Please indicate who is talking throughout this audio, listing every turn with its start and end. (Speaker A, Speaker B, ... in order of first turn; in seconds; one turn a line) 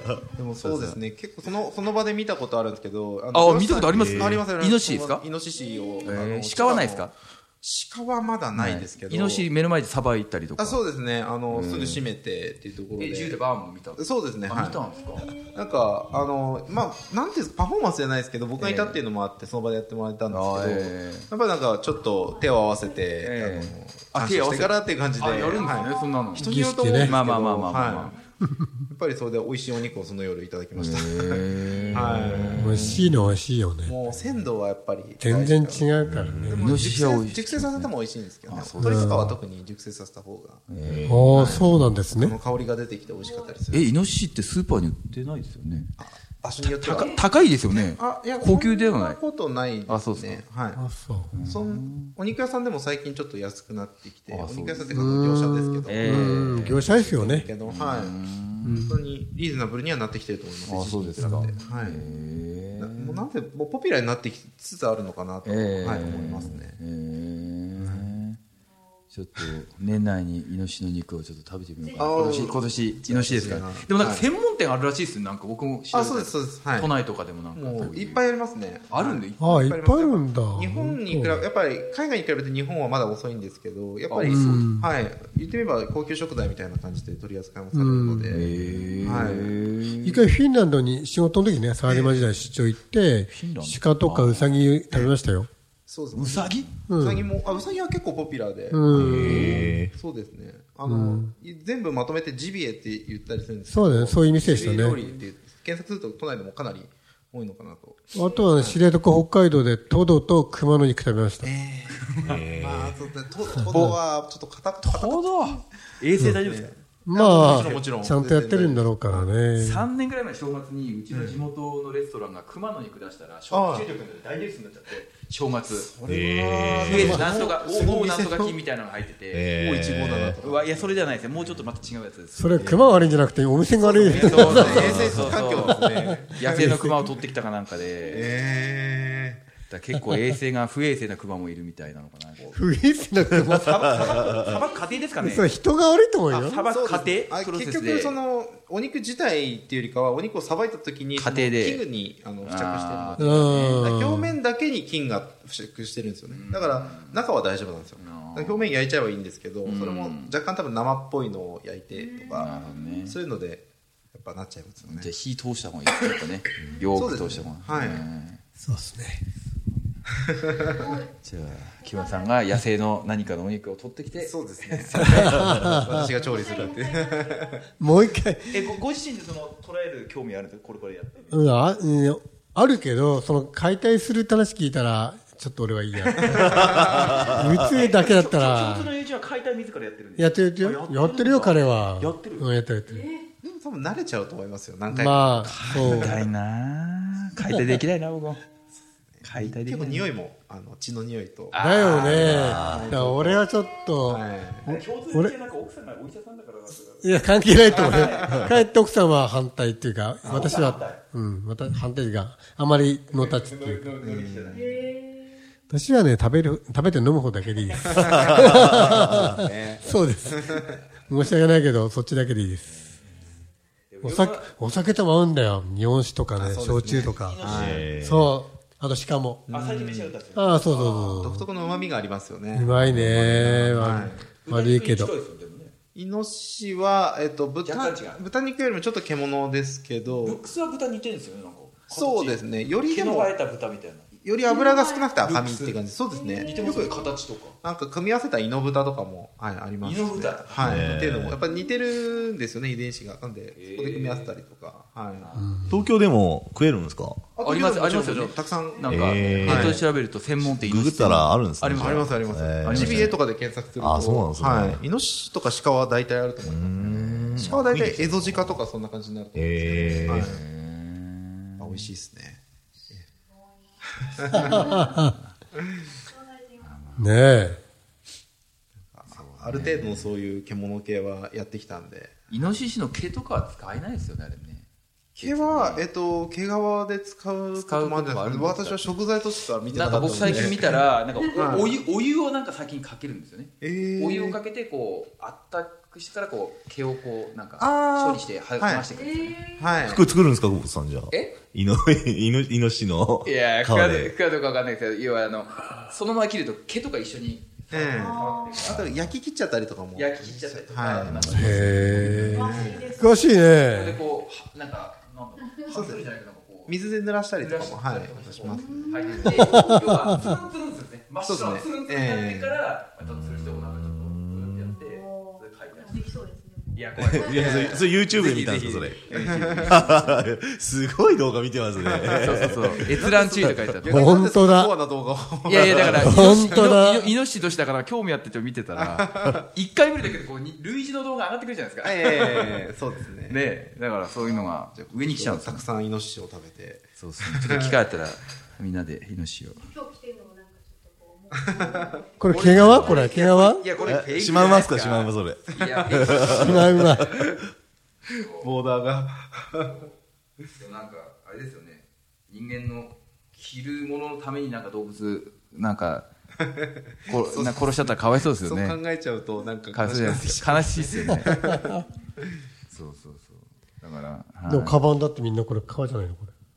Speaker A: 0.3-9.5
Speaker B: 0.6-0.9
Speaker C: 0.6-1.0
Speaker C: 3.3-5.2
Speaker B: 3.9-4.4
Speaker C: 6.0-7.1
Speaker C: 8.6-10.8
Speaker A: 10.6-13.4
Speaker C: 11.5-12.1
Speaker C: 13.0-15.2
Speaker A: 14.0-28.2
Speaker C: 18.6-19.0
Speaker C: 20.3-21.3
Speaker C: 23.2-28.2
Speaker D: 26.4-27.1
Speaker A: 28.9-33.0
Speaker C: 30.8-33.4
Speaker D: 32.5-34.0
Speaker A: 33.9-40.7
Speaker D: 35.2-36.6
Speaker B: 36.0-36.6
Speaker C: 36.5-37.9
Speaker C: 38.5-39.2
Speaker D: 38.8-39.3
Speaker C: 40.7-41.6
Speaker B: 40.9-41.5
Speaker D: 41.1-42.4
Speaker A: 41.3-43.9
Speaker C: 43.7-45.9
Speaker A: 46.0-50.8
Speaker C: 46.6-49.2
Speaker C: 49.9-50.4
Speaker D: 50.8-51.3
Speaker C: 51.3-52.1
Speaker A: 51.4-58.2
Speaker C: 54.3-55.0
Speaker D: 54.9-57.5
Speaker C: 55.9-57.0
Speaker C: 57.6-58.9
Speaker D: 58.6-59.0
Speaker A: 58.9-62.0
Speaker C: 60.7-63.2
Speaker D: 61.2-61.5
Speaker A: 62.8-66.8
Speaker C: 65.4-68.4
Speaker A: 67.8-68.1
Speaker C: 69.1-78.2
Speaker A: 72.0-74.2
Speaker A: 75.9-76.9
Speaker A: 77.5-89.5
Speaker C: 78.9-79.5
Speaker D: 79.4-81.5
Speaker C: 84.1-84.7
Speaker D: 84.3-84.9
Speaker D: 87.7-88.4
Speaker C: 88.3-90.2
Speaker D: 90.0-95.5
Speaker A: 91.9-92.2
Speaker C: 93.3-94.6
Speaker A: 95.9-108.8
Speaker C: 96.1-96.8
Speaker D: 96.9-97.3
Speaker D: 98.7-99.8
Speaker B: 98.9-99.9
Speaker C: 99.0-99.7
Speaker D: 100.9-101.3
Speaker D: 103.7-105.0
Speaker C: 104.6-105.2
Speaker D: 108.2-111.5
Speaker A: 111.4-115.6
Speaker B: 112.2-113.0
Speaker D: 113.6-113.9
Speaker C: 114.8-116.7
Speaker A: 116.3-119.3
Speaker D: 117.0-119.9
Speaker C: 117.3-117.8
Speaker C: 119.6-125.9
Speaker A: 121.1-121.4
Speaker A: 123.5-123.9
Speaker A: 125.7-128.6
Speaker B: 126.0-127.5
Speaker C: 126.8-129.5
Speaker D: 126.9-127.3
Speaker B: 129.3-130.4
Speaker A: 129.5-131.7
Speaker C: 130.4-133.2
Speaker D: 132.4-137.0
Speaker A: 133.8-136.8
Speaker C: 133.9-135.8
Speaker C: 136.4-138.4
Speaker A: 138.1-139.4
Speaker C: 139.7-142.6
Speaker D: 142.5-144.5
Speaker C: 143.4-145.6
Speaker D: 145.2-146.6
Speaker C: 146.3-148.2
Speaker A: 146.7-165.1
Speaker C: 151.2-151.8
Speaker C: 152.4-153.9
Speaker D: 153.2-154.3
Speaker C: 156.3-157.2
Speaker C: 158.0-158.8
Speaker C: 159.6-160.3
Speaker C: 162.4-163.2
Speaker C: 164.8-168.4
Speaker A: 166.9-168.1
Speaker D: 168.6-169.2
Speaker C: 169.3-170.0
Speaker A: 170.4-170.9
Speaker E: 170.8-171.1
Speaker C: 171.2-175.8
Speaker A: 174.2-177.7
Speaker D: 175.1-176.1
Speaker E: 176.3-177.4
Speaker D: 177.8-178.7
Speaker C: 178.5-181.4
Speaker D: 181.3-188.9
Speaker A: 186.1-187.2
Speaker C: 186.9-192.5
Speaker D: 190.2-193.1
Speaker A: 193.4-196.2
Speaker D: 194.9-196.2
Speaker C: 195.5-198.4
Speaker A: 199.1-203.4
Speaker C: 199.2-200.1
Speaker C: 201.5-202.8
Speaker D: 201.6-205.3
Speaker B: 202.1-202.9
Speaker A: 204.1-204.7
Speaker C: 204.7-208.6
Speaker D: 207.0-213.9
Speaker C: 210.2-211.0
Speaker A: 210.2-210.7
Speaker C: 213.1-214.9
Speaker A: 214.0-214.7
Speaker D: 215.7-222.8
Speaker A: 217.9-220.8
Speaker B: 218.3-219.2
Speaker C: 220.6-221.1
Speaker C: 222.7-223.3
Speaker C: 223.9-224.5
Speaker D: 224.0-227.5
Speaker A: 226.4-227.9
Speaker C: 227.0-227.9
Speaker B: 227.4-228.3
Speaker D: 228.0-229.5
Speaker A: 229.5-230.1
Speaker C: 229.5-231.3
Speaker D: 230.3-231.5
Speaker A: 230.7-232.8
Speaker D: 232.5-235.1
Speaker B: 232.7-233.6
Speaker C: 233.2-233.6
Speaker A: 233.6-234.3
Speaker C: 234.5-235.7
Speaker A: 235.9-240.4
Speaker C: 237.6-238.2
Speaker C: 240.2-244.1
Speaker A: 241.9-243.3
Speaker A: 244.2-246.9
Speaker C: 245.2-245.8
Speaker E: 246.2-246.7
Speaker C: 246.4-247.6
Speaker A: 247.6-255.4
Speaker C: 249.8-250.9
Speaker B: 250.6-251.5
Speaker C: 253.6-254.4
Speaker C: 255.2-255.6
Speaker D: 255.4-255.7
Speaker B: 255.6-257.2
Speaker A: 257.4-259.8
Speaker C: 257.4-263.2
Speaker B: 258.9-259.8
Speaker B: 260.4-263.2
Speaker A: 261.8-266.8
Speaker B: 263.8-264.9
Speaker B: 266.4-268.6
Speaker C: 266.8-267.8
Speaker A: 267.4-270.4
Speaker B: 269.3-270.4
Speaker C: 269.8-271.9
Speaker A: 271.6-272.4
Speaker A: 273.9-274.9
Speaker D: 274.4-275.1
Speaker C: 274.5-275.3
Speaker A: 275.5-275.9
Speaker C: 276.6-277.1
Speaker D: 277.0-277.6
Speaker A: 278.8-282.5
Speaker C: 279.1-280.1
Speaker C: 282.3-285.9
Speaker A: 285.2-291.7
Speaker C: 287.6-289.0
Speaker C: 289.7-299.4
Speaker B: 290.0-290.5
Speaker A: 293.6-294.4
Speaker A: 297.6-298.9
Speaker E: 299.2-299.5
Speaker A: 299.6-300.1
Speaker B: 299.8-304.1
Speaker C: 301.1-301.4
Speaker C: 303.2-309.1
Speaker A: 307.7-311.8
Speaker C: 309.9-312.9
Speaker B: 311.1-312.4
Speaker D: 311.3-314.0
Speaker A: 312.3-313.0
Speaker E: 312.4-313.1
Speaker C: 313.7-316.8
Speaker A: 315.7-316.0
Speaker A: 316.7-319.6
Speaker C: 317.4-326.1
Speaker E: 318.5-319.1
Speaker D: 319.3-320.3
Speaker A: 321.2-322.6
Speaker B: 323.0-324.8
Speaker E: 326.0-327.1
Speaker C: 326.7-330.1
Speaker B: 327.0-333.8
Speaker A: 327.4-327.8
Speaker A: 329.1-329.8
Speaker A: 331.8-336.8
Speaker C: 332.2-334.1
Speaker D: 333.8-334.8
Speaker C: 335.5-342.6
Speaker D: 335.9-337.1
Speaker A: 338.7-339.5
Speaker A: 341.8-343.4
Speaker C: 343.3-345.6
Speaker A: 344.7-347.8
Speaker C: 347.0-349.7
Speaker E: 349.7-352.1
Speaker A: 351.4-352.0
Speaker D: 352.2-353.6
Speaker C: 352.3-357.1
Speaker B: 352.4-352.9
Speaker B: 353.8-357.1
Speaker A: 355.5-356.0
Speaker D: 356.4-357.0
Speaker C: 358.1-358.5
Speaker A: 358.4-359.9
Speaker C: 360.6-366.1
Speaker A: 366.4-371.7
Speaker C: 367.1-368.8
Speaker C: 369.7-371.5
Speaker C: 372.7-374.8
Speaker D: 374.5-376.3